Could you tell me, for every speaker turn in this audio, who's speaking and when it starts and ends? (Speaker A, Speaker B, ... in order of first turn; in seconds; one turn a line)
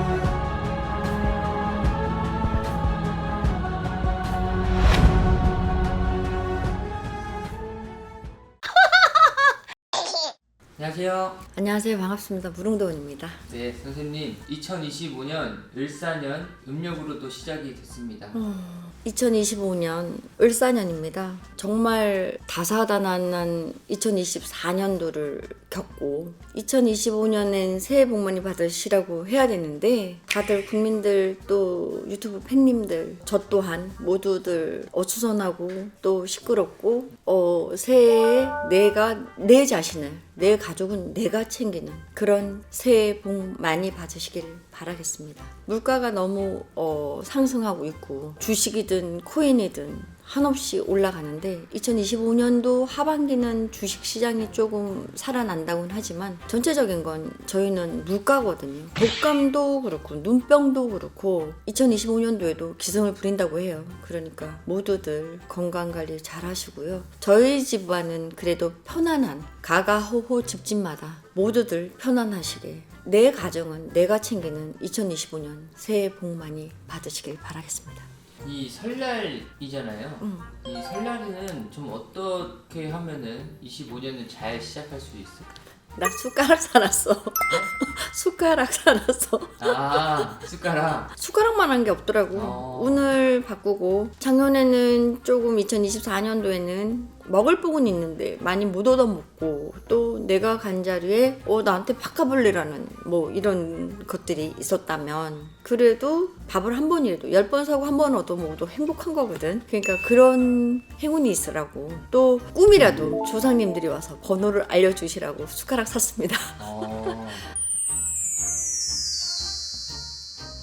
Speaker A: 10.8-11.4
Speaker B: 11.6-13.4
Speaker A: 13.5-18.4
Speaker B: 18.3-78.0
Speaker A: 78.4-85.6
Speaker B: 80.2-80.5
Speaker B: 86.0-90.2
Speaker A: 89.6-91.1
Speaker B: 91.1-116.6
Speaker A: 92.3-93.2
Speaker A: 116.6-117.5